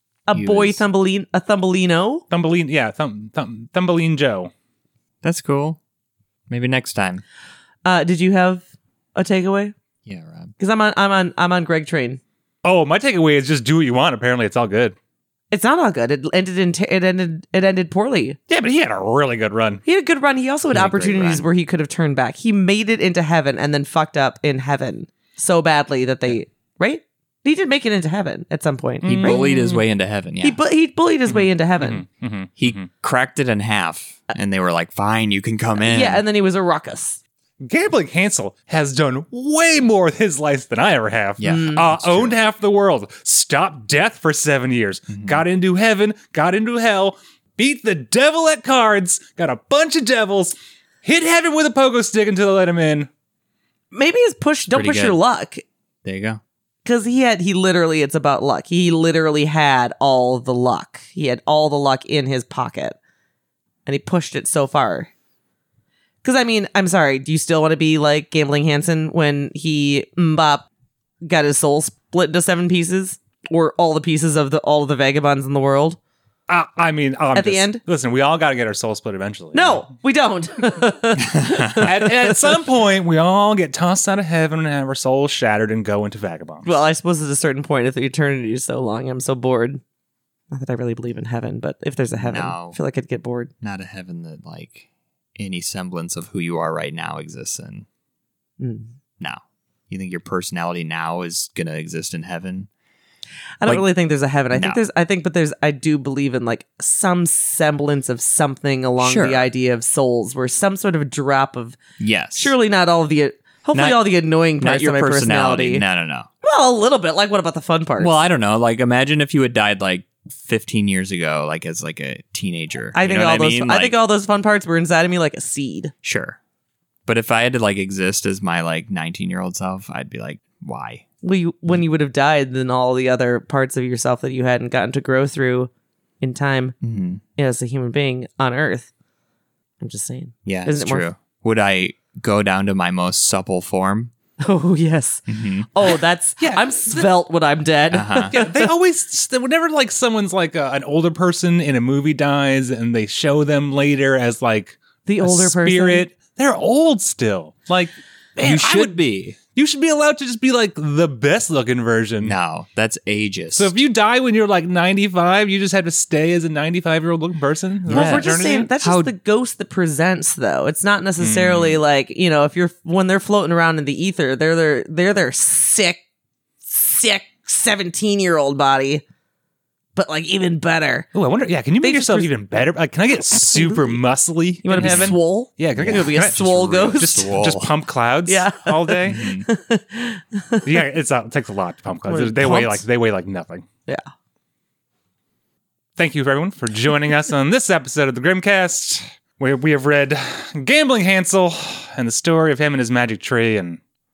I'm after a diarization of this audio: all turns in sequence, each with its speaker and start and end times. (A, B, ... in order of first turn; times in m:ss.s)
0:00.3-0:02.2 A
0:00.3-0:00.8 B
0:02.3-0:04.5 C
0:05.2-0:05.8 B
0:06.5-0:07.2 B
0:07.8-0:09.7 A
0:10.0-0:10.5 B
0:10.6-0:12.2 A
0:12.6-0:15.0 C
0:15.5-0:18.4 A
0:18.5-0:19.8 C
0:19.8-0:29.6 A
0:20.7-0:21.5 B
0:29.0-0:29.7 C
0:29.2-0:30.6 B
0:30.4-0:32.0 A
0:31.3-0:32.9 C
0:32.6-0:36.2 B
0:35.8-0:37.2 A
0:37.6-0:53.1 C
0:41.4-0:42.4 B
0:41.4-0:41.8 A
0:45.2-0:45.4 B
0:53.9-0:55.6 A
0:54.7-0:55.2 B
0:56.0-0:56.4 B
0:56.8-1:03.0 A
1:03.8-1:05.1 A
1:06.2-1:10.6 A
1:11.2-1:16.0 A
1:16.5-1:19.9 C
1:17.3-1:17.8 A
1:19.5-1:22.5 A
1:21.3-1:21.8 B
1:21.7-1:26.8 C
1:26.6-1:29.8 A
1:30.5-1:33.5 A
1:32.2-1:32.8 B
1:33.6-1:37.8 B
1:38.6-1:38.9 A
1:39.2-1:42.7 B
1:43.6-1:51.8 A
1:44.5-1:44.8 B
1:49.0-1:49.5 B
1:52.0-1:52.5 B
1:52.3-1:55.8 A
1:53.7-1:56.3 B
1:56.4-1:58.1 A
1:58.0-2:04.0 B
2:02.9-2:05.9 A
2:06.0-2:06.4 B
2:07.0-2:11.0 B
2:11.2-2:16.8 A
2:16.8-2:17.2 B
2:17.4-2:18.9 A
2:19.8-2:21.1 A
2:20.4-2:24.1 B
2:24.4-2:28.7 A
2:25.3-2:25.9 B
2:26.4-2:27.1 C
2:27.9-2:28.3 B
2:28.3-2:42.3 C
2:35.0-2:36.1 A
2:38.4-2:39.4 B
2:42.2-2:43.7 B
2:43.5-2:48.7 C
2:47.9-2:49.1 B
2:47.9-2:56.0 A
2:51.2-2:51.8 C
2:56.6-2:59.0 A
3:00.0-3:01.1 A
3:01.1-3:09.2 C
3:01.8-3:02.3 A
3:03.3-3:04.0 A
3:04.6-3:07.3 A
3:04.7-3:05.2 B
3:05.7-3:07.7 B
3:08.2-3:10.8 A
3:09.0-3:09.5 B
3:10.6-3:13.6 C
3:12.1-3:12.8 A
3:16.0-3:23.8 C